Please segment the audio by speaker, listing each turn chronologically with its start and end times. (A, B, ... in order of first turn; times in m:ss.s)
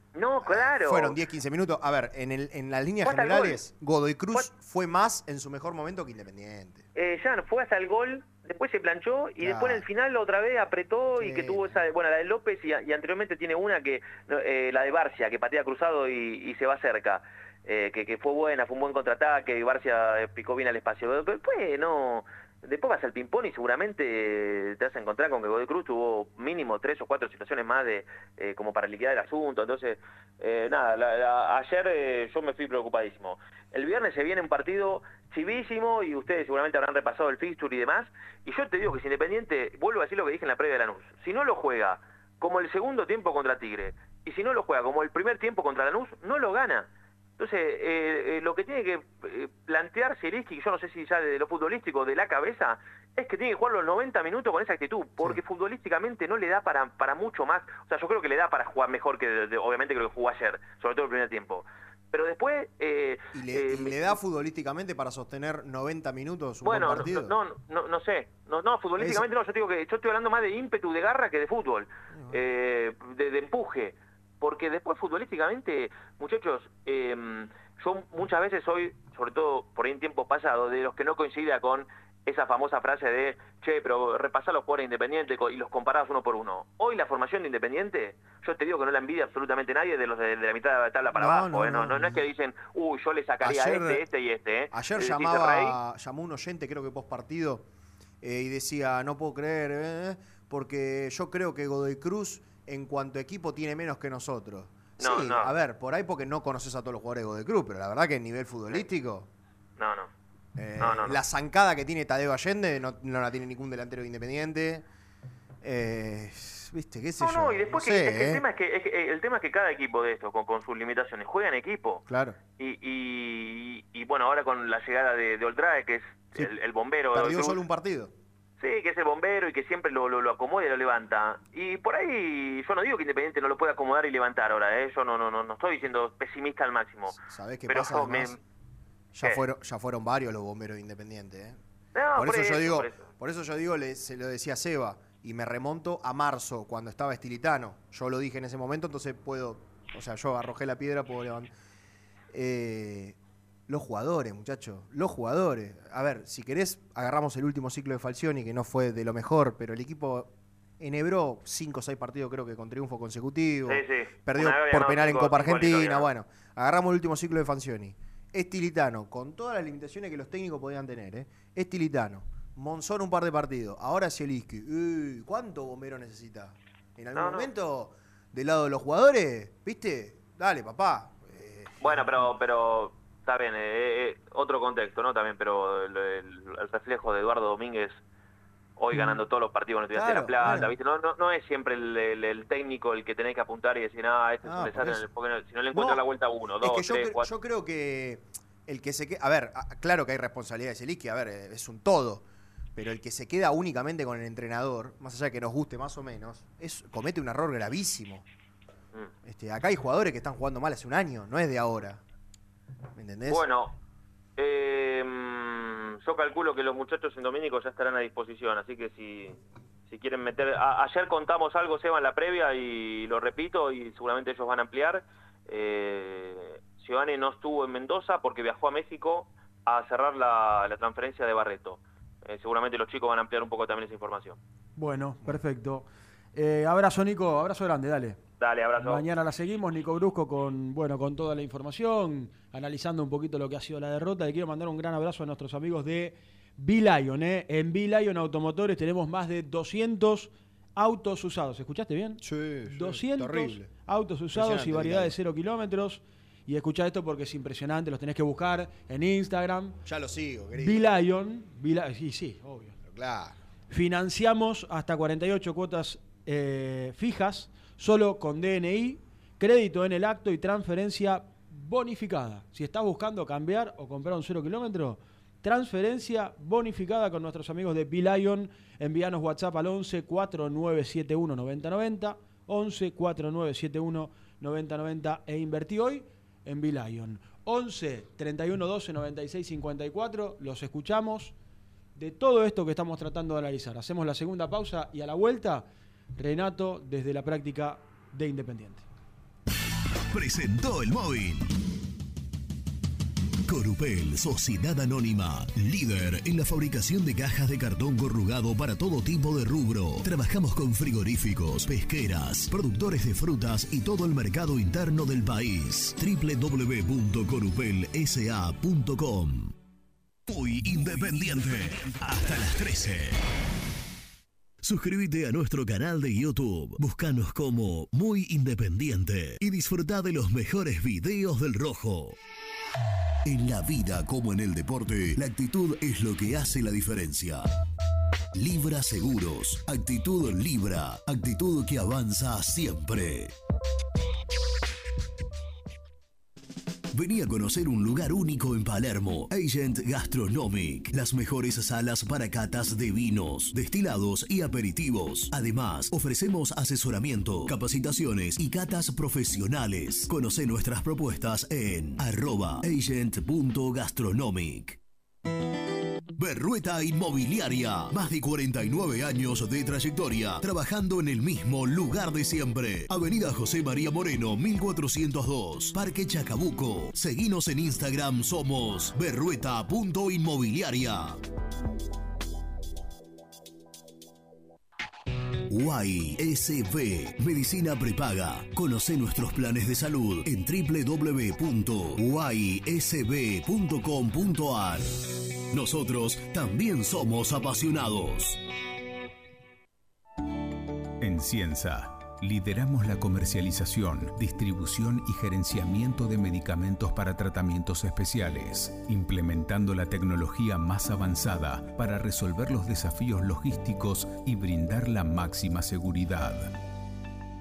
0:00.1-0:01.2 A
0:00.4-0:06.8 B
0:03.0-0:03.6 A
0:06.9-0:46.9 A
0:09.4-0:09.8 B
0:11.2-0:11.8 B
0:47.4-1:04.1 A
1:03.3-1:07.3 B
1:06.6-1:35.7 A
1:09.0-1:09.2 B
1:12.1-1:12.4 B
1:31.1-1:32.2 B
1:33.4-1:34.0 B
1:34.7-1:37.6 B
1:38.2-1:49.3 B
1:45.0-1:45.5 A
1:49.8-1:50.1 A
1:50.6-1:54.8 B
1:50.8-1:51.2 A
1:55.6-1:58.4 B
1:57.2-2:02.0 A
2:02.1-2:02.4 B
2:02.6-2:07.6 A
2:07.1-2:08.1 B
2:08.6-2:18.4 A
2:17.1-2:18.4 B
2:19.1-2:21.6 B
2:21.9-2:23.0 A
2:22.2-2:31.5 B
2:32.3-2:33.2 B
2:33.7-3:02.3 B
2:43.6-2:46.1 A
2:57.1-2:57.5 A
3:01.8-3:08.0 A
3:08.8-3:17.3 A
3:08.9-3:09.2 B
3:09.9-3:10.7 B
3:14.4-3:15.1 B
3:15.7-3:16.0 B
3:16.6-3:22.2 B
3:22.7-3:28.2 B
3:29.2-3:32.0 B
3:33.0-3:33.4 B
3:33.3-3:33.7 A
3:34.4-3:54.4 A
3:54.8-3:58.2 C
3:58.4-3:59.0 A
3:58.8-4:19.8 C
4:12.2-4:13.7 B
4:14.3-4:15.1 B
4:19.8-4:20.8 B
4:20.6-4:22.8 C
4:22.8-4:23.4 B
4:23.7-4:51.3 C
4:52.0-4:55.6 C
4:56.2-4:58.8 C
5:00.1-5:01.5 D
5:03.5-5:19.5 D
5:20.3-5:23.2 D
5:24.6-5:32.2 D
5:33.2-5:37.4 D
5:38.4-5:43.3 D
5:46.9-6:04.8 D
6:06.2-6:21.2 D
6:25.5-6:34.8 D
6:35.5-6:38.4 D
6:41.0-6:56.5 E